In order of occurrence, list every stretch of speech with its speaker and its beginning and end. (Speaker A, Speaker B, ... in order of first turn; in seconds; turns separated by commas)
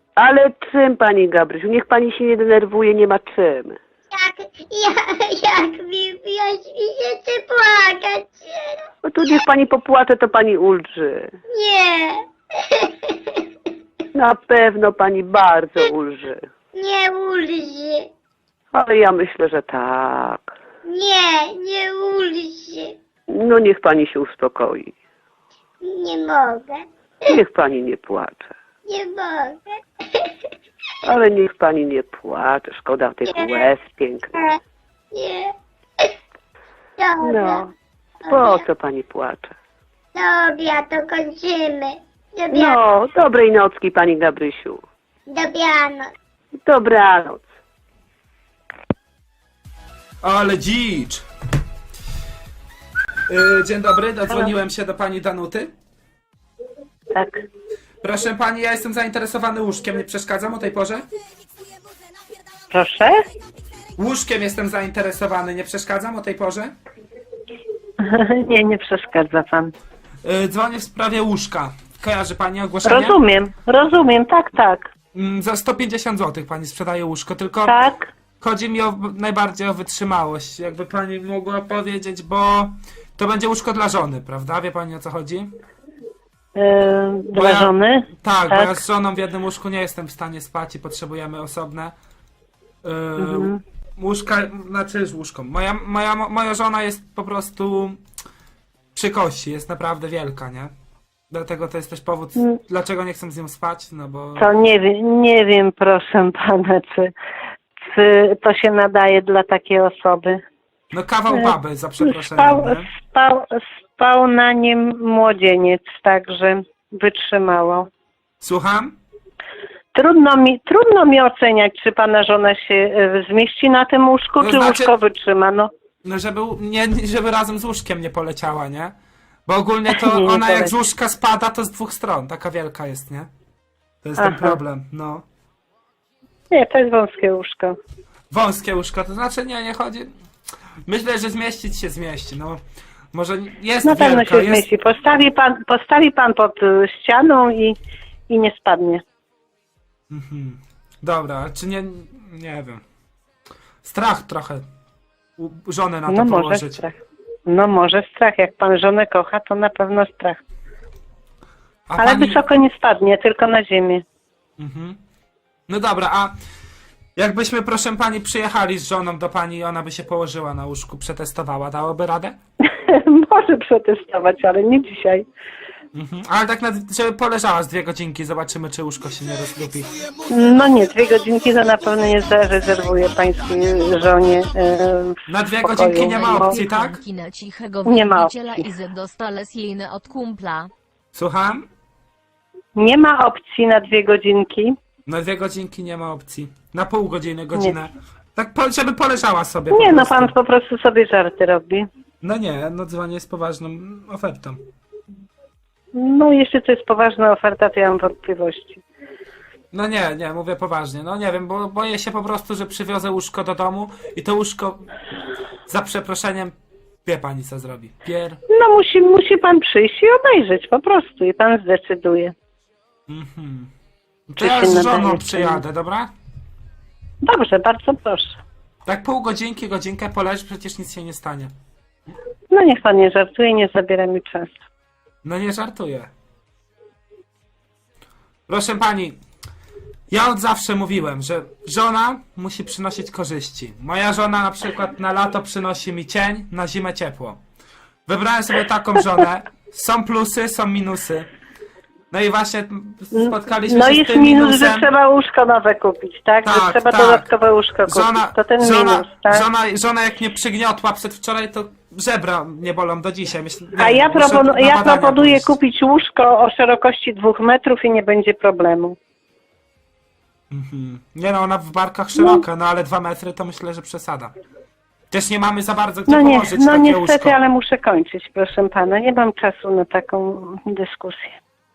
Speaker A: 0.2-3.8, Speaker B: 4.1-9.4, Speaker A: 9.0-11.3, Speaker B: 11.5-13.4, Speaker A: 14.1-16.4, Speaker B: 16.7-18.1, Speaker A: 18.7-20.5, Speaker B: 20.9-22.9, Speaker A: 23.3-24.9, Speaker B: 25.8-27.3, Speaker A: 27.3-28.5, Speaker B: 28.9-30.3, Speaker A: 31.0-34.3, Speaker B: 33.3-33.6, Speaker B: 35.1-36.1, Speaker B: 37.0-37.6, Speaker A: 37.2-37.7, Speaker B: 38.2-38.6, Speaker A: 38.3-39.5, Speaker B: 40.1-42.8, Speaker A: 42.5-44.8, Speaker B: 45.3-46.1, Speaker A: 46.6-47.5, Speaker C: 50.2-51.2, Speaker C: 53.3-55.7, Speaker D: 57.1-57.4, Speaker C: 58.0-61.0, Speaker D: 62.7-63.2, Speaker C: 64.0-66.7, Speaker D: 68.0-69.7, Speaker C: 70.2-73.2, Speaker D: 72.8-74.9, Speaker C: 75.1-77.8, Speaker D: 77.6-78.1, Speaker C: 78.4-85.5, Speaker D: 86.5-88.8, Speaker C: 87.4-91.9, Speaker C: 92.8-98.0, Speaker D: 93.2-93.6, Speaker C: 98.9-100.7, Speaker C: 101.3-104.5, Speaker D: 104.3-107.1, Speaker D: 107.9-110.4, Speaker C: 110.9-112.9, Speaker D: 111.3-117.8, Speaker C: 118.4-119.0, Speaker D: 119.9-125.7, Speaker C: 124.4-124.9, Speaker C: 126.0-128.9, Speaker C: 129.5-133.3, Speaker D: 129.9-130.7, Speaker C: 134.0-135.2, Speaker D: 134.2-134.6, Speaker D: 136.5-137.8, Speaker C: 138.3-140.1, Speaker C: 140.8-142.6, Speaker C: 143.1-144.7, Speaker D: 143.8-147.8, Speaker D: 148.3-149.0, Speaker C: 150.1-152.8, Speaker C: 153.8-154.6, Speaker C: 155.4-156.8, Speaker D: 156.1-160.4, Speaker C: 161.9-162.4, Speaker D: 162.0-164.0, Speaker C: 164.6-164.9, Speaker C: 165.7-166.3, Speaker C: 167.2-172.3, Speaker D: 172.9-175.2, Speaker C: 175.9-179.9, Speaker D: 180.3-186.6, Speaker C: 185.3-187.0, Speaker E: 186.1-190.7, Speaker D: 187.9-188.7, Speaker C: 191.1-191.7, Speaker D: 192.8-194.7, Speaker C: 195.1-200.3, Speaker D: 199.7-201.8, Speaker C: 202.2-204.6, Speaker D: 205.9-208.8, Speaker C: 209.7-214.8, Speaker C: 215.7-216.5, Speaker C: 217.0-218.4, Speaker D: 218.5-222.3, Speaker C: 223.1-223.7, Speaker C: 224.3-226.1, Speaker D: 224.4-225.6, Speaker D: 227.2-228.4, Speaker C: 228.8-231.5, Speaker D: 232.5-234.6, Speaker C: 235.2-236.1, Speaker C: 238.5-239.2, Speaker C: 240.1-247.4, Speaker C: 248.1-251.2, Speaker C: 252.1-254.9, Speaker D: 253.1-259.4, Speaker C: 256.4-257.3, Speaker C: 257.8-265.5, Speaker D: 263.7-268.9, Speaker C: 270.5-274.3, Speaker D: 272.1-272.4, Speaker C: 275.1-277.4, Speaker D: 276.1-281.4